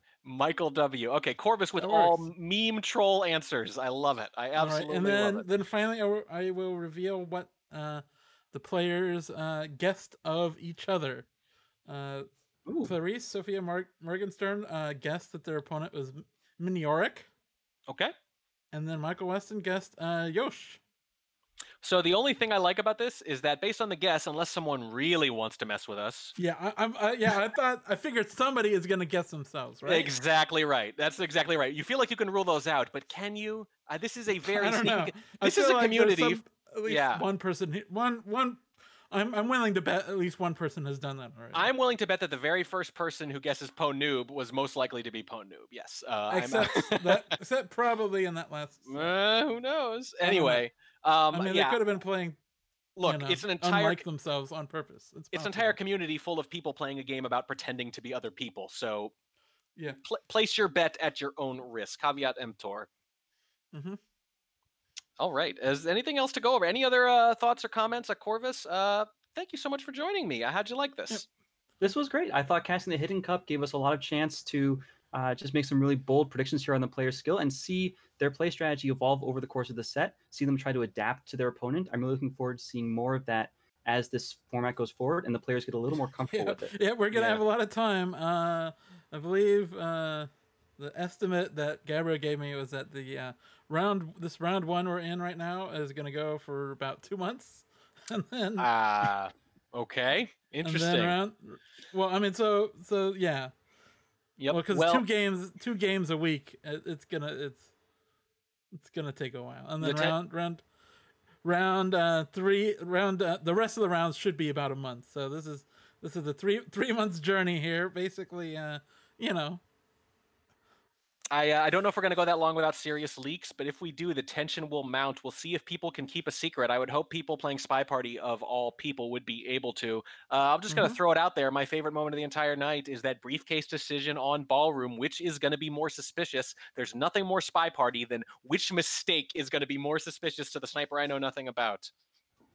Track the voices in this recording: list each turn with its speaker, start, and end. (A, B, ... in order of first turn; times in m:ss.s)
0:00.2-0:05.5 A
0:01.8-0:02.3 B
0:04.6-0:11.3 B
0:11.8-0:12.3 B
0:12.6-0:12.9 C
0:12.8-0:17.3 B
0:17.9-0:18.1 A
0:18.7-0:20.8 B
0:21.8-0:26.4 A
0:26.4-0:30.2 B
0:29.8-0:37.2 A
0:34.4-0:41.7 B
0:41.5-0:47.4 A
0:46.3-0:49.1 B
0:48.9-0:51.8 A
0:50.2-0:50.6 B
0:51.3-0:52.4 B
0:53.0-0:54.0 A
0:53.0-0:55.8 B
0:55.3-0:59.1 A
1:00.0-1:02.9 A
1:03.7-1:04.0 B
1:05.2-1:11.2 A
1:11.8-1:26.8 C
1:26.3-1:38.7 B
1:27.1-1:27.4 A
1:38.6-1:41.2 A
1:40.6-1:43.5 B
1:44.4-1:45.0 A
1:44.5-1:47.7 B
1:48.7-1:50.6 B
1:49.8-1:50.2 A
1:51.4-1:59.6 B
2:01.3-2:21.9 A
2:10.7-2:11.0 B